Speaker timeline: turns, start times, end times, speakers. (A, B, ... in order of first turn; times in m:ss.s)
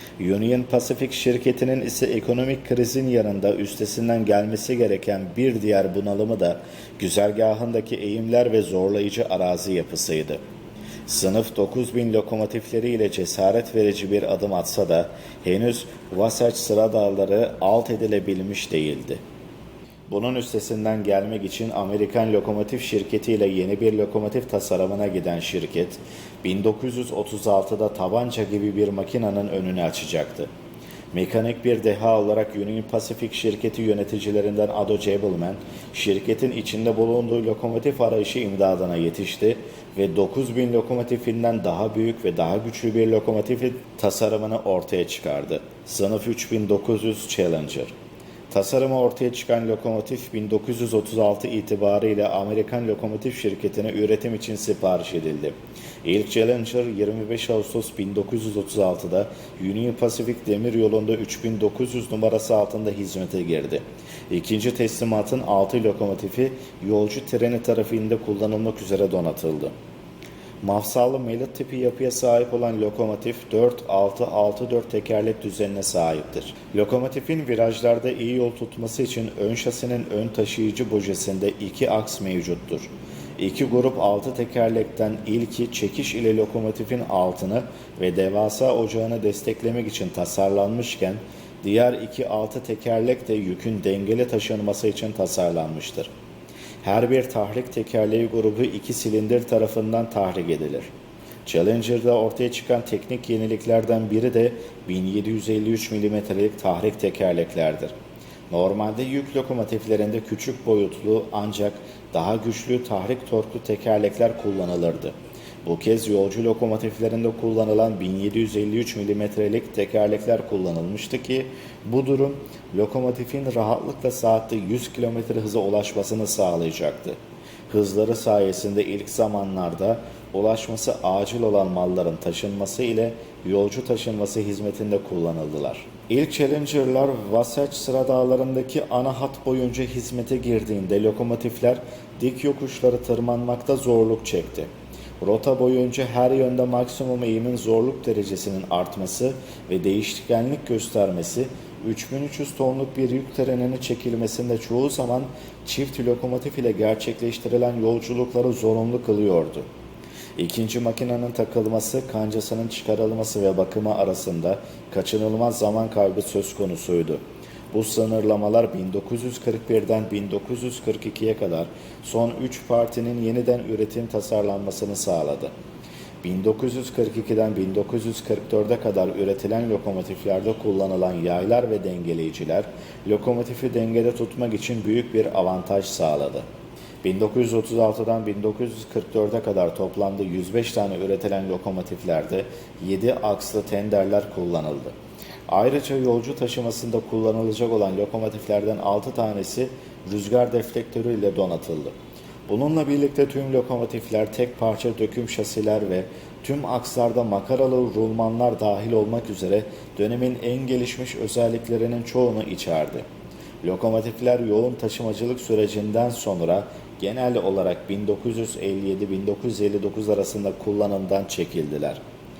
0:00.2-0:10.4 A
0:11.1-0:19.2 A
0:20.1-0:30.5 A
0:31.1-0:47.9 A
0:48.5-1:09.7 A
1:10.6-1:36.1 A
1:36.8-1:40.9 A
1:41.5-1:47.9 A
1:48.5-2:07.2 A
2:07.7-2:24.7 A
2:25.2-2:39.7 A
2:40.4-2:55.5 A
2:56.2-3:06.5 A
3:07.0-3:15.0 A
3:15.5-3:22.0 A
3:22.5-3:33.0 A
3:33.6-3:42.0 A